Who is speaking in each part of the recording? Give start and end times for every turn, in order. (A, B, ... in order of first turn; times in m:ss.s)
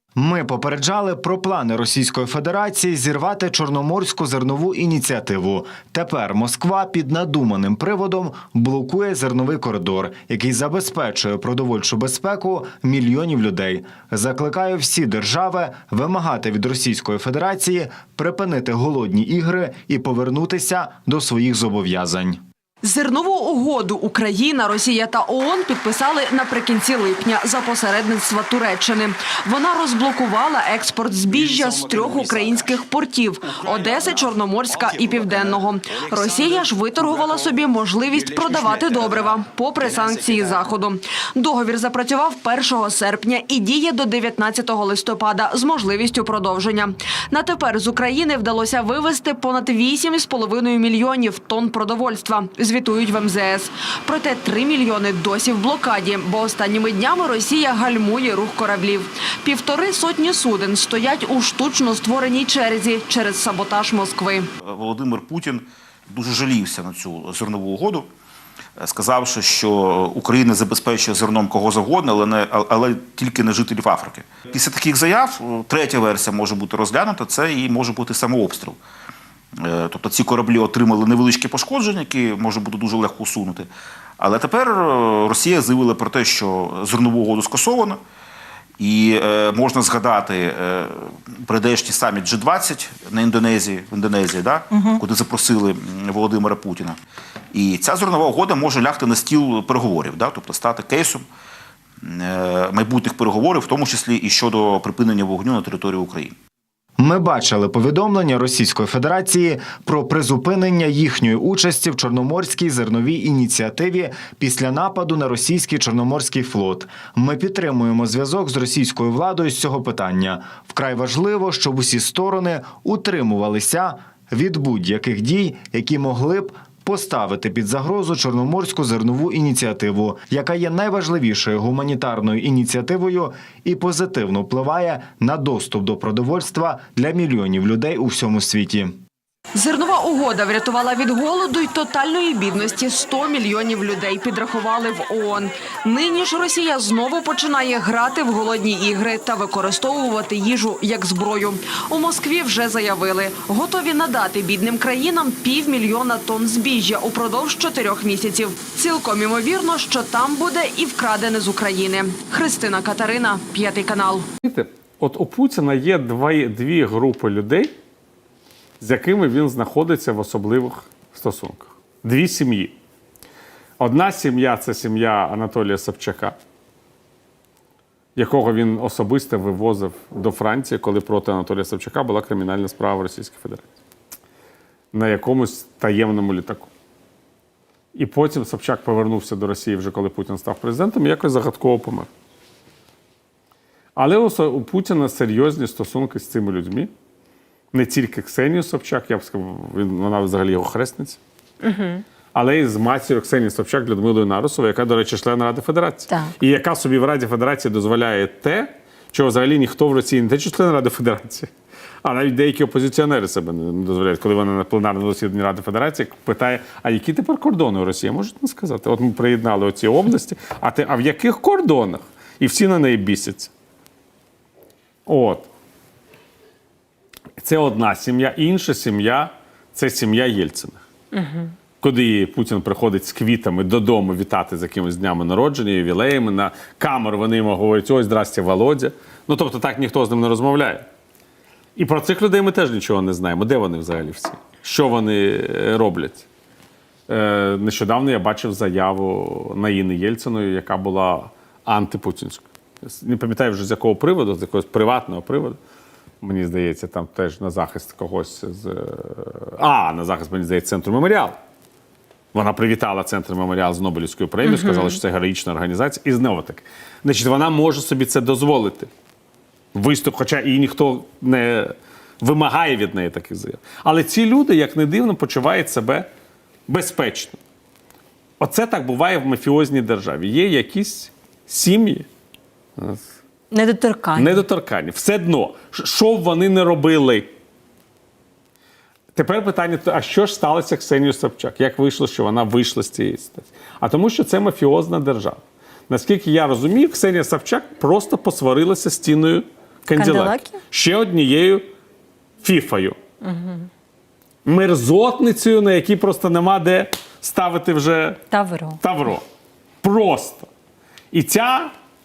0:00.2-0:22.4 A
0:22.8-1:04.5 B
1:04.6-1:08.1 C
1:08.8-1:18.8 C
1:19.6-1:23.7 C
1:24.2-1:28.0 C
1:28.8-1:37.0 C
1:37.5-1:41.2 C
1:42.0-1:46.3 C
1:47.0-2:19.0 A
2:19.5-2:44.3 B
2:44.4-2:47.7 D
2:48.8-2:52.8 D
2:53.8-2:56.3 D
2:58.2-3:03.6 D
3:04.9-3:06.7 D
3:07.9-3:12.1 D
3:14.0-3:16.9 D
3:17.7-3:21.2 D
3:21.6-3:22.0 E
3:22.3-3:31.5 D
3:32.0-3:43.5 D
3:45.0-3:45.5 D
3:47.4-3:50.8 D
3:51.1-3:51.4 E
3:51.8-4:00.8 D
4:01.8-4:06.2 D
4:07.1-4:15.6 D
4:16.2-4:21.4 D
4:22.3-4:28.9 D
4:24.4-4:25.0 E
4:29.7-4:36.1 D
4:36.7-4:37.4 D
4:38.4-4:42.0 D
4:42.8-4:43.0 D
4:43.5-4:44.4 E
4:44.1-4:47.3 D
4:49.2-5:01.6 D
4:59.9-5:00.6 E
5:02.4-5:03.0 D
5:03.2-5:03.7 E
5:04.4-5:08.3 D
5:08.3-5:08.8 E
5:08.8-5:09.2 D
5:09.8-5:10.5 D
5:11.1-5:11.7 D